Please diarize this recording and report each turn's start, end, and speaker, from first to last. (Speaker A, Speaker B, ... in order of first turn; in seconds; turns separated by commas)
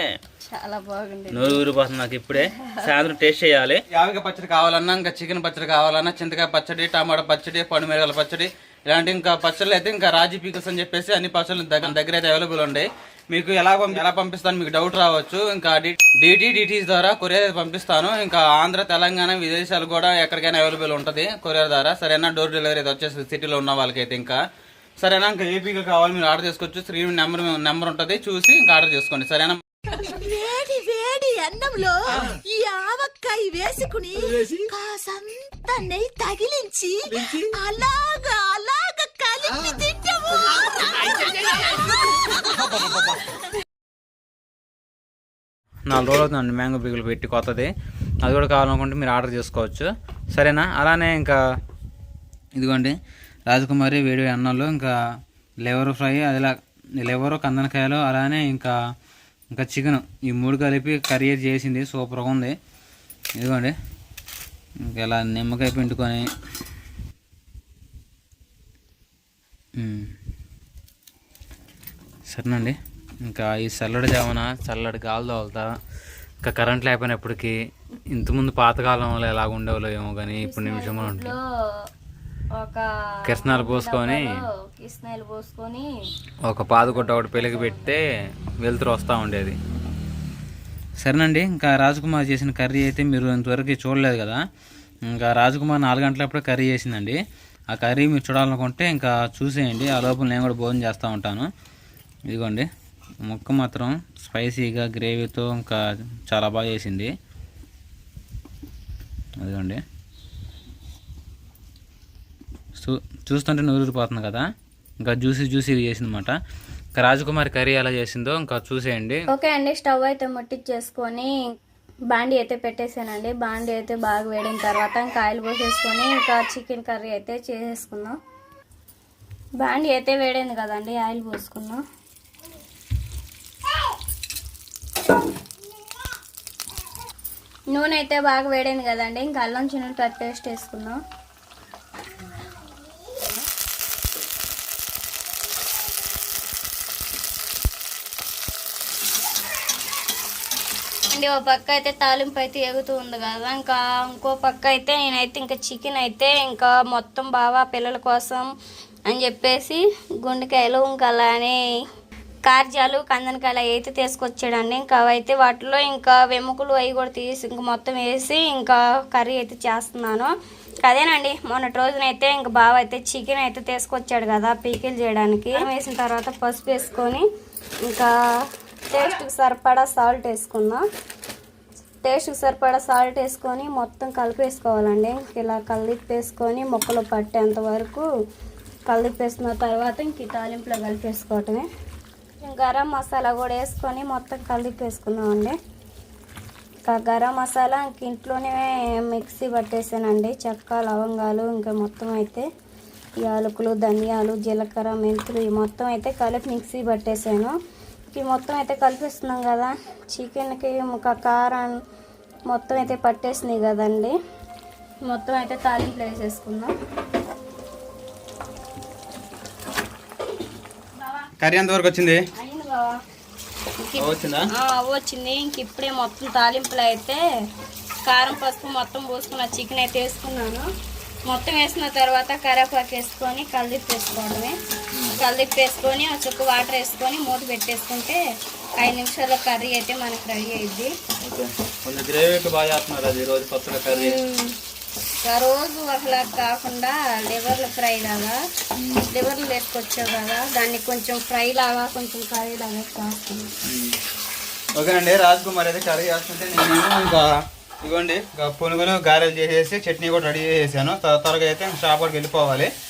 Speaker A: 0.4-1.6, Speaker B: 1.3-24.4, Speaker A: 2.4-2.9, Speaker B: 25.0-29.6, Speaker C: 29.9-42.6, Speaker B: 45.9-47.7, Speaker B: 48.2-51.4, Speaker B: 52.5-53.0, Speaker B: 53.5-54.9, Speaker B: 55.6-58.7, Speaker B: 59.5-62.5, Speaker B: 63.4-63.7, Speaker B: 64.8-66.2, Speaker B: 69.8-70.1, Speaker B: 72.3-75.7, Speaker B: 76.4-77.5, Speaker B: 78.1-81.3, Speaker A: 80.3-81.4, Speaker A: 82.5-85.9, Speaker B: 83.3-84.3, Speaker B: 86.4-88.0, Speaker A: 86.8-87.9, Speaker B: 88.6-89.5, Speaker B: 91.0-94.4, Speaker B: 95.1-97.2, Speaker B: 97.7-101.5, Speaker B: 102.3-102.7, Speaker B: 103.2-107.1, Speaker B: 109.4-109.8, Speaker B: 112.7-114.4, Speaker B: 115.0-116.3, Speaker B: 117.0-119.2, Speaker A: 119.3-121.3, Speaker A: 122.1-128.2, Speaker A: 129.6-131.8, Speaker A: 137.7-141.0, Speaker A: 151.1-158.4, Speaker A: 159.1-161.6, Speaker A: 162.4-170.3, Speaker A: 170.8-177.2, Speaker A: 178.9-180.8, Speaker A: 182.0-188.1, Speaker A: 188.9-191.7, Speaker A: 192.4-195.5, Speaker A: 196.9-202.4, Speaker A: 203.2-207.5, Speaker A: 208.1-211.7, Speaker A: 212.5-214.1, Speaker A: 215.1-216.7, Speaker B: 221.4-222.2, Speaker A: 222.3-222.9, Speaker A: 223.8-227.2, Speaker B: 224.0-224.4, Speaker A: 228.1-230.7, Speaker A: 231.3-234.6, Speaker A: 235.2-238.2, Speaker A: 238.8-240.9, Speaker B: 241.2-244.2, Speaker A: 243.9-244.6, Speaker A: 245.2-248.4, Speaker B: 248.8-249.1, Speaker A: 249.1-253.5, Speaker B: 253.6-254.0, Speaker B: 254.7-257.3, Speaker B: 257.8-262.7